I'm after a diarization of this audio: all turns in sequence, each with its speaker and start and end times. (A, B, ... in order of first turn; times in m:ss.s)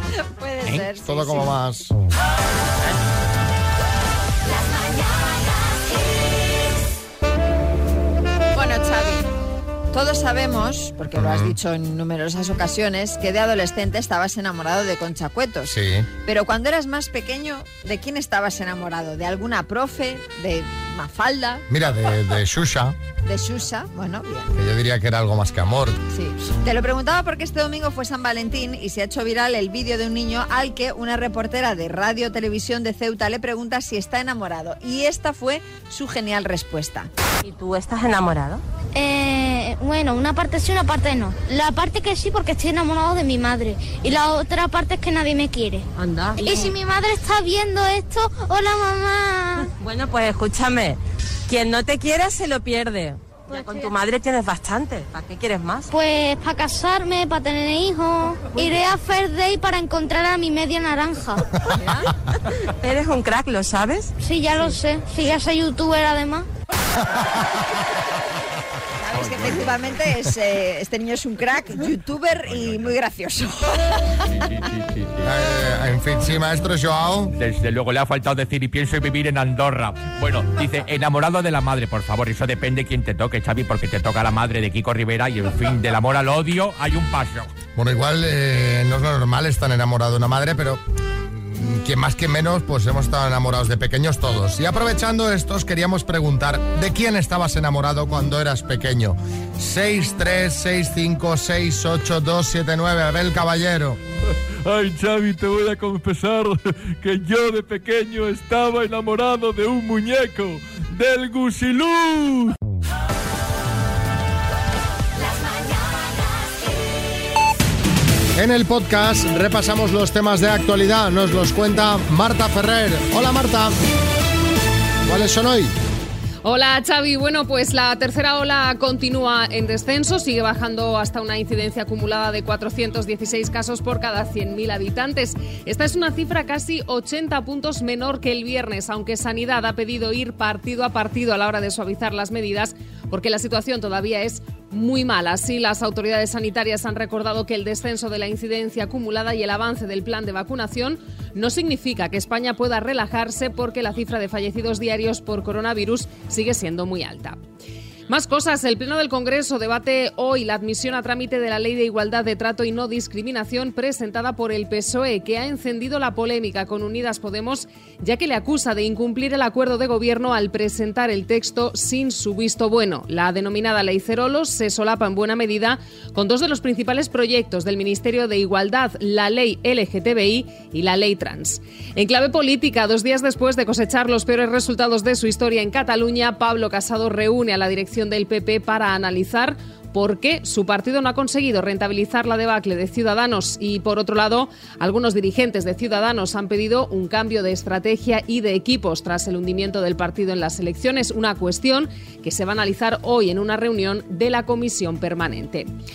0:00.2-0:01.5 A
0:00.6-0:01.9 B
0:08.5-0:09.3 A
0:09.9-0:21.6 A
0:11.2-0:11.6 B
0:15.7-0:16.1 B
0:21.7-0:23.0 B
0:23.3-0:24.5 A
0:24.6-0:26.0 B
0:26.1-0:37.1 A
0:37.5-0:38.6 C
0:38.9-0:45.9 D
0:46.4-0:49.7 D
0:49.8-0:51.0 C
0:51.5-0:55.8 C
0:53.5-0:54.0 D
0:55.9-1:01.4 D
1:01.6-1:02.1 A
1:02.8-1:04.1 C
1:04.2-1:06.5 D
1:09.0-1:14.2 A
1:14.7-1:15.2 E
1:15.2-1:17.3 B
1:17.4-1:27.5 E
1:27.8-1:44.0 B
1:44.6-1:52.5 F
1:58.4-2:03.8 B
2:05.1-2:05.8 B
2:06.4-2:37.4 G
2:38.1-3:25.7 G